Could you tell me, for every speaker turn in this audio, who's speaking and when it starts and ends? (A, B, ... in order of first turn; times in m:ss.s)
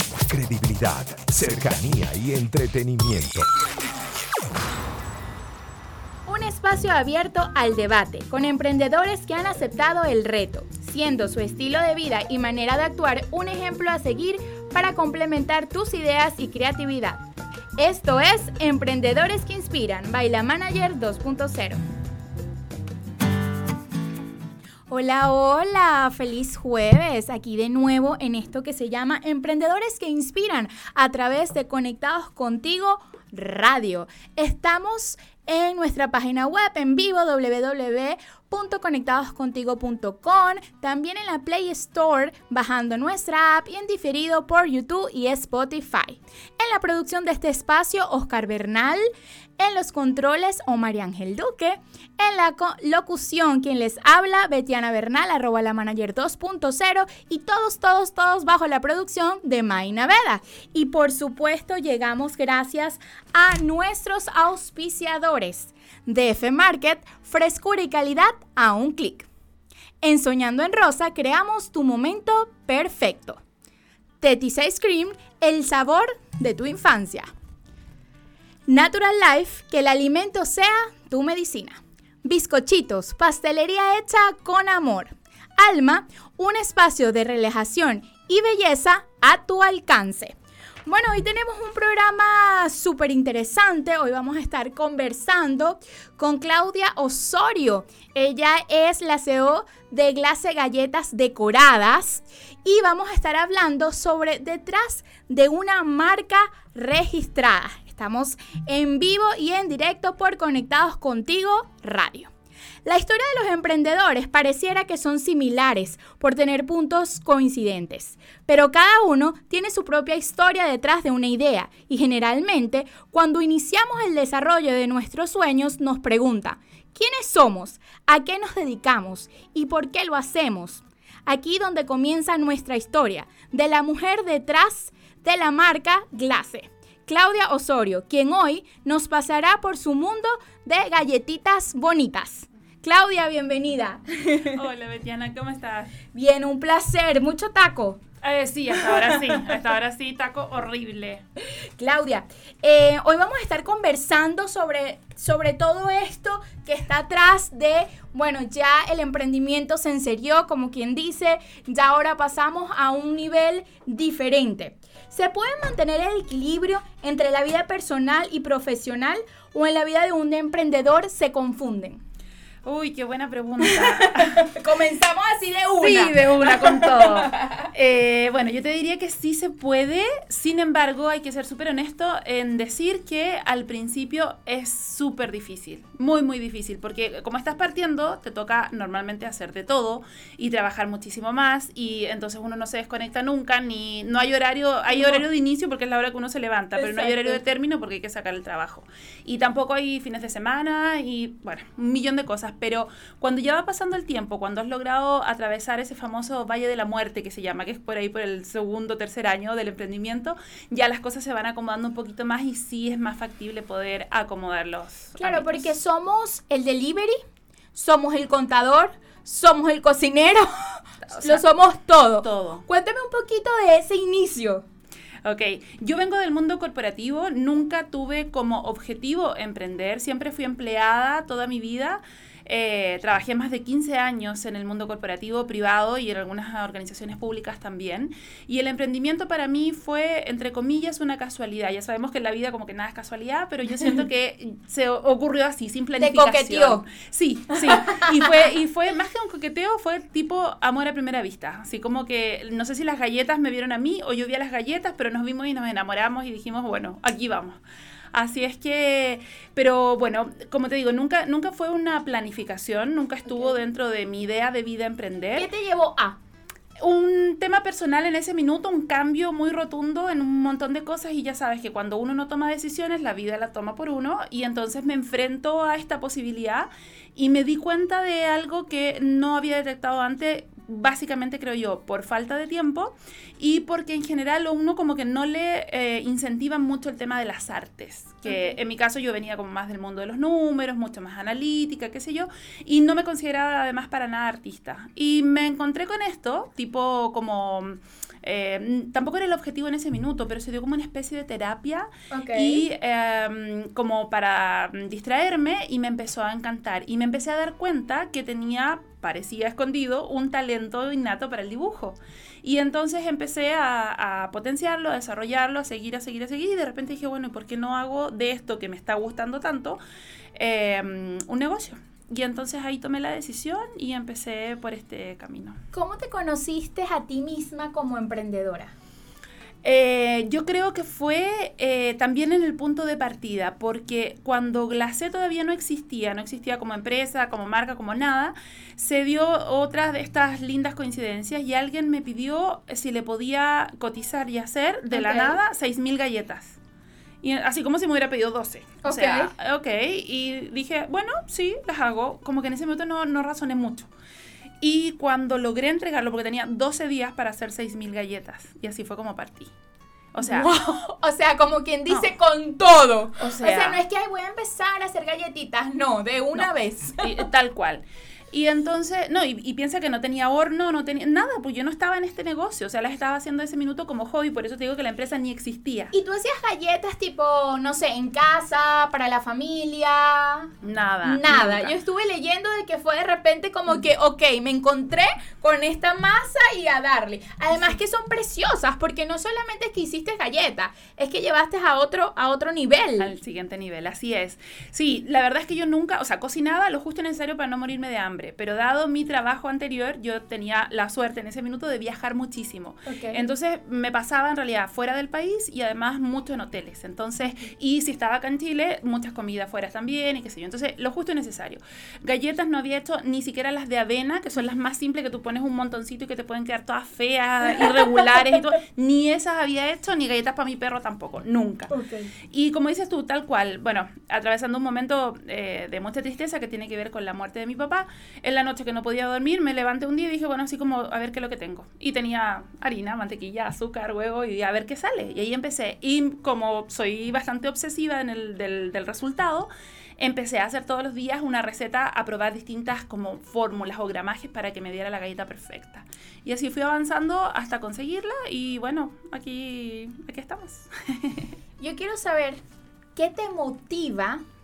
0:00.2-0:03.5 A
0:06.3-0:17.2 B
0:17.8-0:21.8 B
0:24.9-1:09.3 B
1:10.0-1:13.4 B
1:14.2-1:17.3 B
1:18.7-1:52.3 B
1:52.8-2:24.6 B
2:24.5-2:25.9 C
2:26.1-2:28.0 B
2:28.2-2:31.2 C
2:28.9-2:29.4 B
2:31.8-2:52.0 B
2:52.6-2:54.6 C
2:53.6-2:57.7 B
2:55.8-3:35.7 C
3:14.9-3:15.2 B
3:16.8-3:17.4 B
3:35.2-3:37.2 B
3:37.7-3:44.6 B
3:41.1-3:41.4 C
3:42.2-3:42.7 C
3:45.2-4:17.6 C
4:06.0-4:06.8 B
4:07.6-4:08.2 B
4:18.1-4:25.5 C
4:23.2-4:23.6 B
4:25.4-4:26.2 B
4:26.8-5:19.8 C
4:48.3-4:48.5 B
5:02.1-5:02.6 B
5:20.4-5:25.6 C
5:25.7-5:28.7 B
5:29.6-5:46.6 C
5:44.9-5:45.4 B
5:47.2-5:53.9 C
5:48.8-5:49.3 B
5:54.6-5:59.5 C
6:00.1-6:00.8 C
6:00.2-6:07.1 B
6:03.2-6:03.8 C
6:07.0-6:15.9 C
6:15.9-6:20.5 B
6:20.6-6:21.7 C
6:21.0-6:33.1 B
6:33.0-7:01.7 C
6:42.8-6:43.2 B
7:01.7-7:02.1 B
7:02.3-7:31.3 C
7:31.6-7:32.4 B
7:33.0-7:34.2 B